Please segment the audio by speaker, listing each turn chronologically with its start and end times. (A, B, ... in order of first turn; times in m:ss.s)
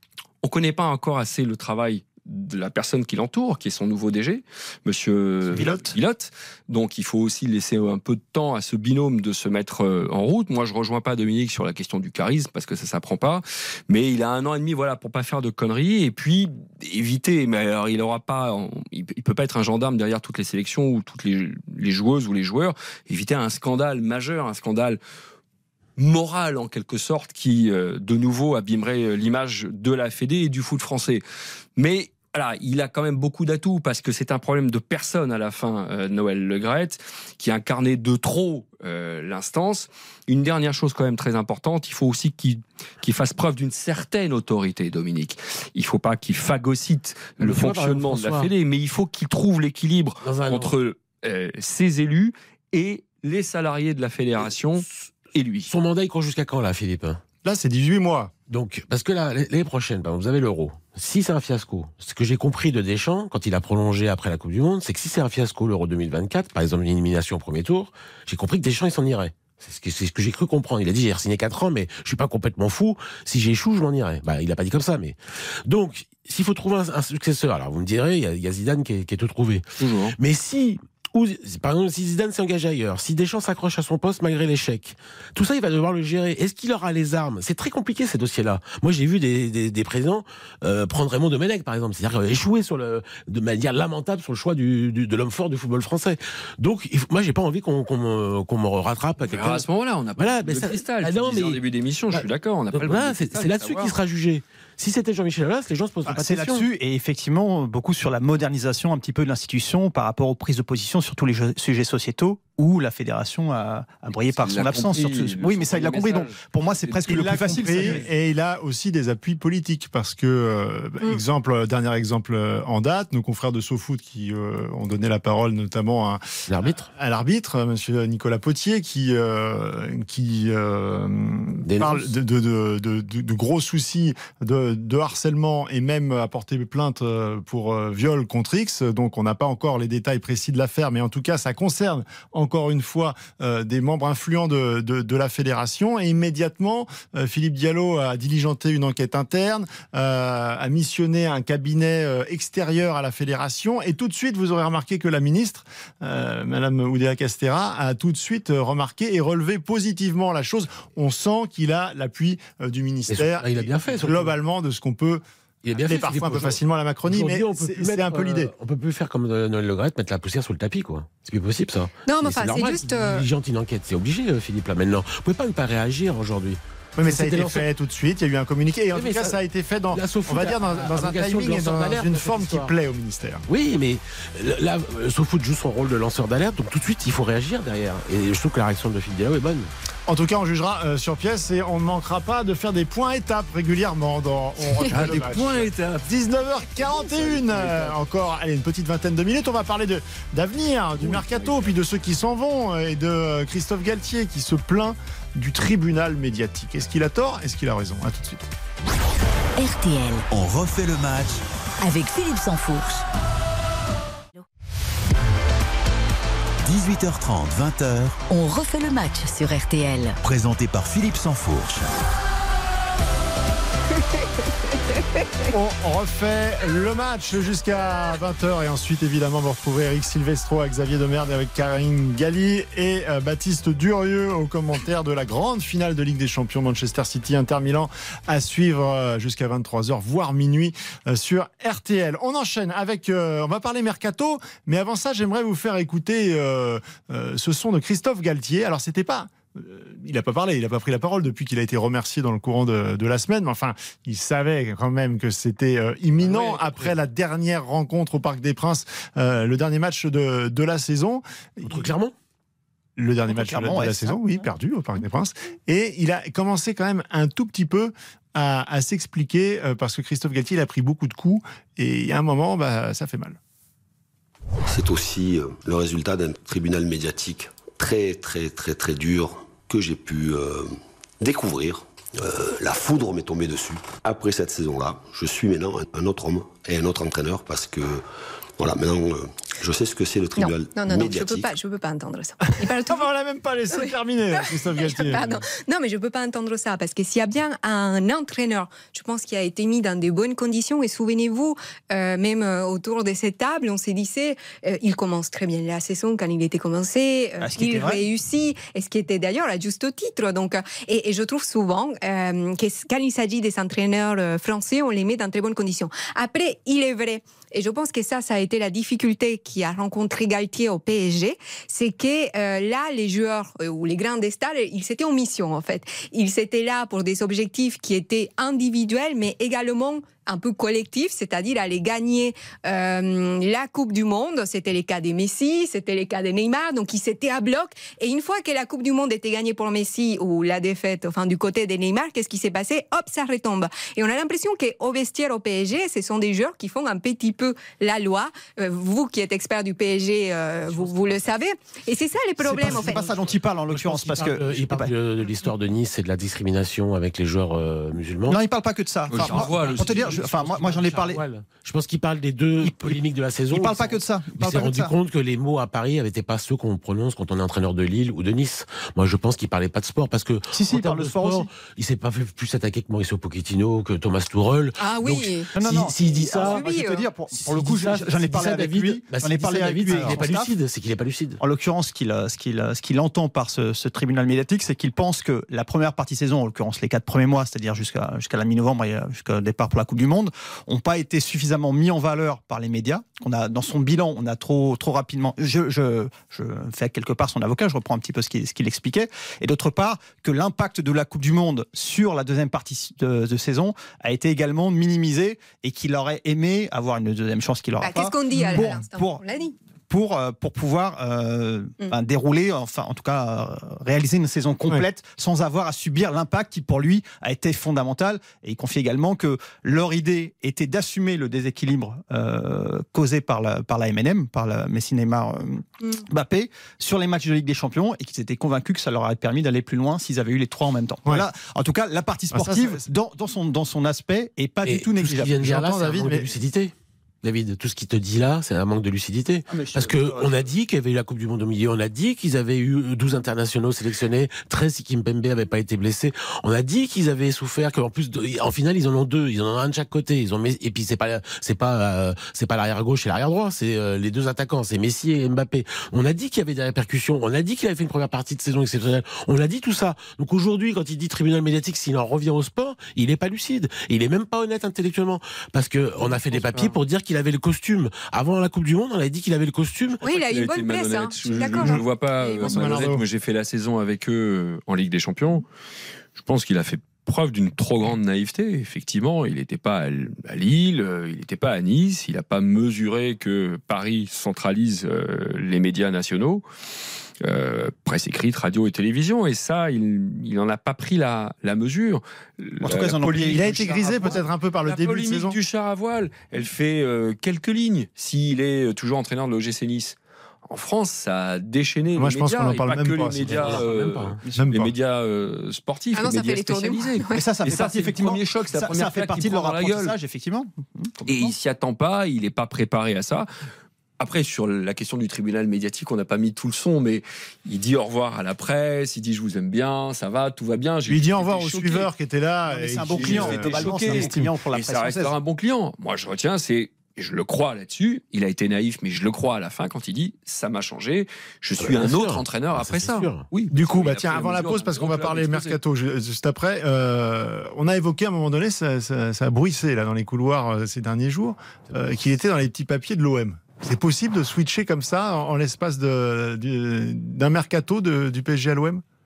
0:00.4-0:25.0 A
0:05.5-0:06.0 B
0:26.0-0:31.2 A
0:31.8-0:55.7 A
0:47.4-0:48.5 C
0:50.2-0:50.7 C
0:55.6-0:57.2 C
0:57.4-0:58.3 D
0:58.5-1:39.6 C
1:19.8-1:20.2 A
1:39.2-1:43.9 A
1:40.2-1:41.6 C
1:42.1-1:46.6 C
1:46.1-1:58.1 B
1:54.4-1:58.0 A
1:57.1-2:45.2 D
2:06.5-2:06.9 C
2:11.6-2:12.1 C
2:43.1-2:44.3 C
2:45.6-2:57.6 C
2:45.7-2:48.5 D
2:52.0-2:53.2 E
2:57.0-3:03.4 D
2:58.9-2:59.3 C
2:59.9-3:02.7 C
3:03.5-3:09.7 C
3:10.1-3:28.5 D
3:14.9-3:16.1 A
3:16.8-3:18.0 C
3:21.0-3:21.6 C
3:29.6-3:30.3 F
3:30.3-3:31.4 G
3:31.8-3:33.0 F
3:36.6-3:38.2 G
3:38.3-3:40.2 F
3:40.2-3:41.9 G
3:44.1-3:45.5 E
3:45.5-4:21.9 D
4:16.2-4:16.9 A
4:21.6-4:22.1 C
4:23.0-4:33.4 D
4:23.3-4:24.2 B
4:34.6-4:48.0 H
4:48.6-4:51.5 H
4:50.4-4:53.0 E
4:52.6-4:55.4 D
4:53.7-5:53.0 E
5:07.4-5:08.0 B
5:52.4-5:54.9 B
5:52.5-5:58.4 C
5:58.3-6:01.2 B
5:59.1-6:00.6 A
5:59.1-6:16.7 C
6:02.6-6:03.0 B
6:03.5-6:04.9 B
6:10.5-6:11.5 B
6:14.8-6:15.5 E
6:15.5-6:20.5 B
6:16.4-6:17.1 E
6:17.4-6:21.4 C
6:19.9-6:20.2 D
6:21.4-6:49.2 B
6:47.8-6:49.5 E
6:49.9-7:15.5 B
7:12.3-7:12.8 D
7:14.6-7:50.0 C
7:15.4-7:16.3 D
7:19.5-7:20.4 B
7:46.0-7:46.8 A
7:50.0-7:52.8 E
7:50.0-7:55.4 A
7:51.5-7:51.9 D
7:52.4-7:53.0 D
7:56.2-8:06.4 A
8:07.2-8:13.4 A
8:12.6-8:14.2 B
8:13.3-8:15.4 D
8:14.6-8:20.0 A
8:20.5-8:29.9 A
8:22.0-8:23.5 D
8:23.2-8:24.2 C
8:24.2-8:24.5 B
8:24.3-8:24.7 D
8:25.9-8:27.2 E
8:27.1-8:31.3 B
8:31.0-8:33.3 A
8:34.0-8:41.9 A
8:40.9-8:44.3 D
8:42.5-8:45.1 B
8:42.9-8:55.6 A
8:51.6-8:53.3 C
8:53.5-9:08.8 D